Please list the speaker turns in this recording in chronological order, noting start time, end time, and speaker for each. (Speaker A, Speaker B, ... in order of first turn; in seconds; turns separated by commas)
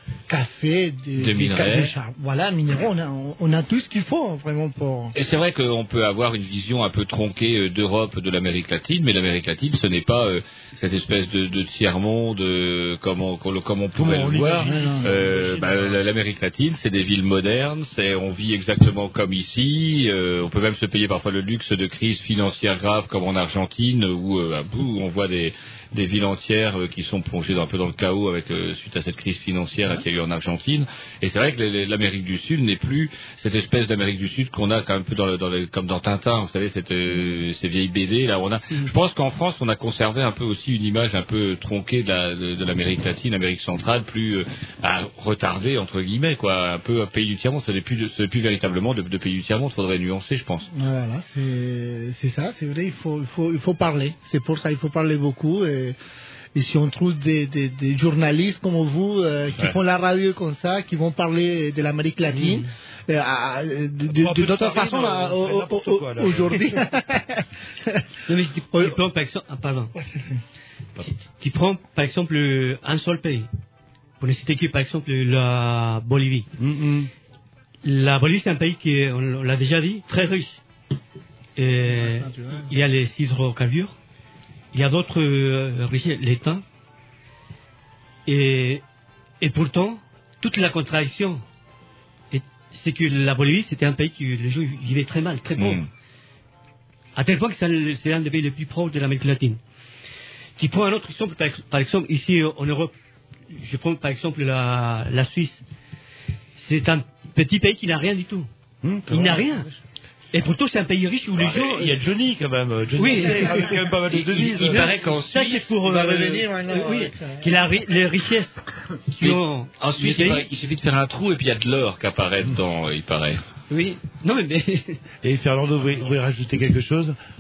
Speaker A: 0.3-5.1, Speaker B: 1.1-1.9, Speaker B: 5.1-50.7, Speaker C: 13.9-16.0, Speaker A: 14.6-15.1, Speaker A: 50.7-56.0, Speaker A: 56.5-68.0, Speaker C: 62.4-62.6, Speaker C: 64.1-66.8, Speaker D: 68.3-69.9, Speaker A: 68.7-69.0, Speaker A: 69.9-70.4, Speaker D: 71.0-73.5, Speaker D: 74.2-76.5, Speaker C: 76.6-77.1, Speaker D: 77.8-80.6, Speaker D: 81.6-84.0, Speaker A: 81.9-82.7, Speaker D: 84.7-86.6, Speaker D: 88.3-88.8, Speaker D: 89.4-91.4, Speaker D: 92.3-95.9, Speaker B: 95.6-95.9, Speaker D: 97.2-99.6, Speaker D: 100.6-102.9, Speaker D: 103.5-105.6, Speaker D: 106.6-108.5, Speaker C: 108.8-109.6, Speaker D: 109.1-109.7, Speaker D: 110.3-112.0, Speaker C: 111.4-114.9, Speaker D: 113.0-120.5, Speaker A: 113.2-113.7, Speaker B: 114.4-115.7, Speaker A: 115.8-117.6, Speaker B: 119.2-123.4, Speaker D: 123.7-125.0, Speaker C: 125.2-127.2